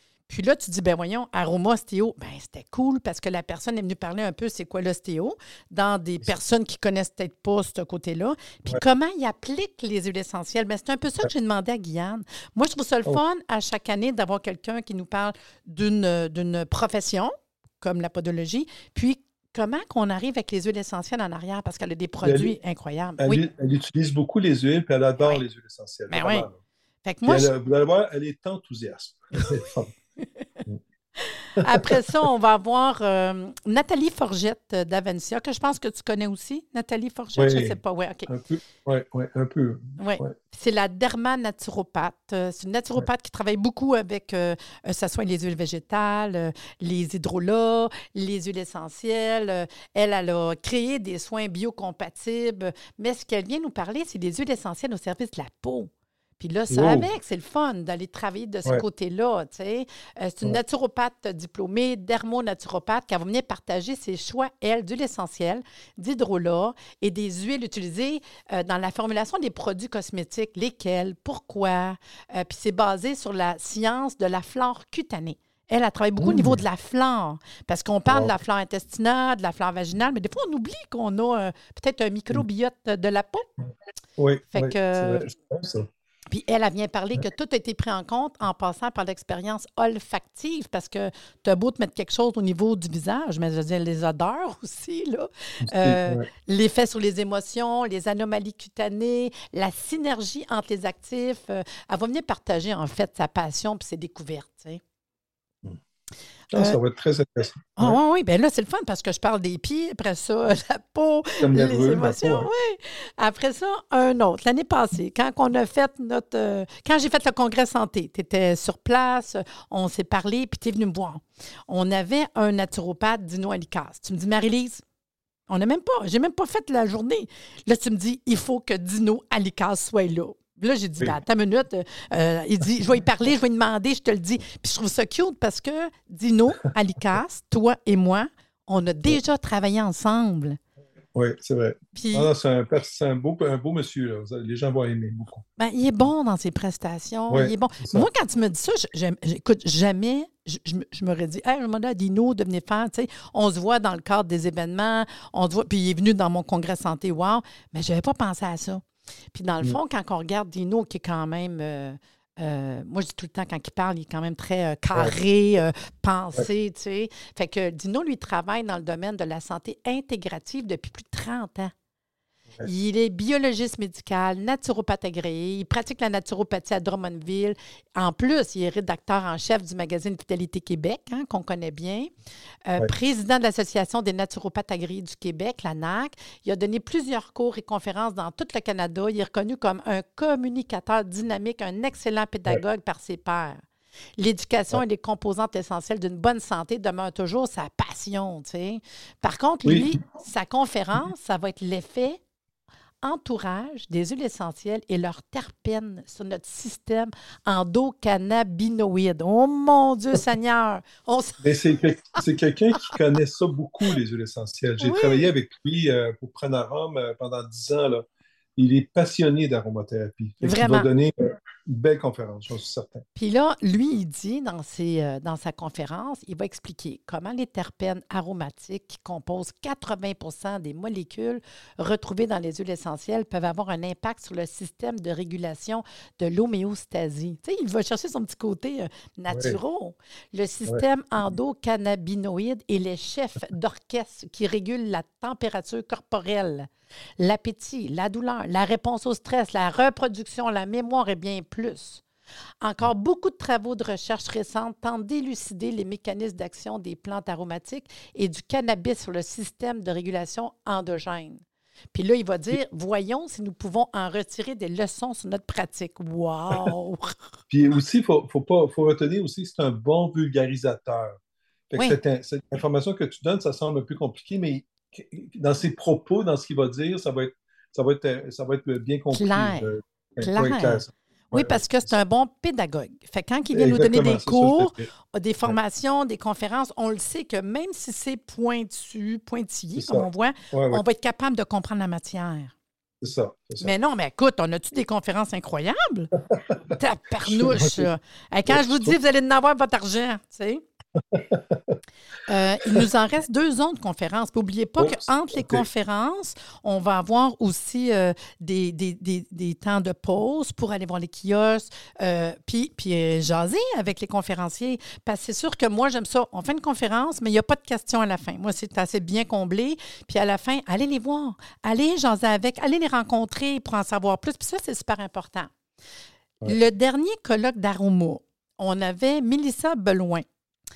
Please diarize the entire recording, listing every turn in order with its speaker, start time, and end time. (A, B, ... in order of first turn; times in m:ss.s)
0:00.3-0:23.4 A
0:22.2-0:22.6 B
0:23.2-0:26.6 B
0:26.1-0:26.5 A
0:27.0-0:27.5 A
0:27.2-0:29.9 B
0:29.4-0:30.6 A
0:31.2-0:38.3 A
0:31.6-0:32.2 B
0:37.3-0:40.3 B
0:40.0-1:23.4 A
0:56.7-0:57.1 B
1:16.2-1:16.6 B
1:18.1-1:18.3 B
1:24.2-1:25.9 B
1:24.5-1:25.2 A
1:26.3-1:44.8 A
1:35.6-1:36.3 B
1:46.5-1:46.8 A
1:46.5-1:48.0 B
1:47.8-2:04.8 A
1:51.4-1:52.5 B
2:05.5-2:20.6 A
2:21.1-2:25.4 B
2:21.9-2:22.3 A
2:25.6-2:51.7 A
2:27.3-2:28.1 B
2:52.6-3:02.1 A
3:02.7-3:13.5 A
3:14.2-3:22.2 A
3:19.6-3:19.9 B
3:23.0-3:32.2 A
3:31.4-3:38.0 B
3:34.8-3:35.3 A
3:38.6-3:41.1 B
3:40.4-3:40.9 A
3:41.7-3:43.0 B
3:43.2-4:12.0 A
3:59.3-3:59.6 B
4:12.6-4:21.4 A
4:21.9-4:27.1 A
4:27.5-4:31.2 B
4:31.7-4:41.8 B
4:39.1-4:52.5 A
4:43.5-4:44.9 B
4:49.8-4:50.8 B
4:53.0-4:53.7 B
4:53.6-4:56.1 A
4:56.7-5:00.6 A
4:57.2-4:57.9 B
4:58.5-4:58.9 B
5:01.1-5:01.8 B
5:02.3-5:25.5 A
5:04.8-5:05.6 B
5:26.4-5:30.2 A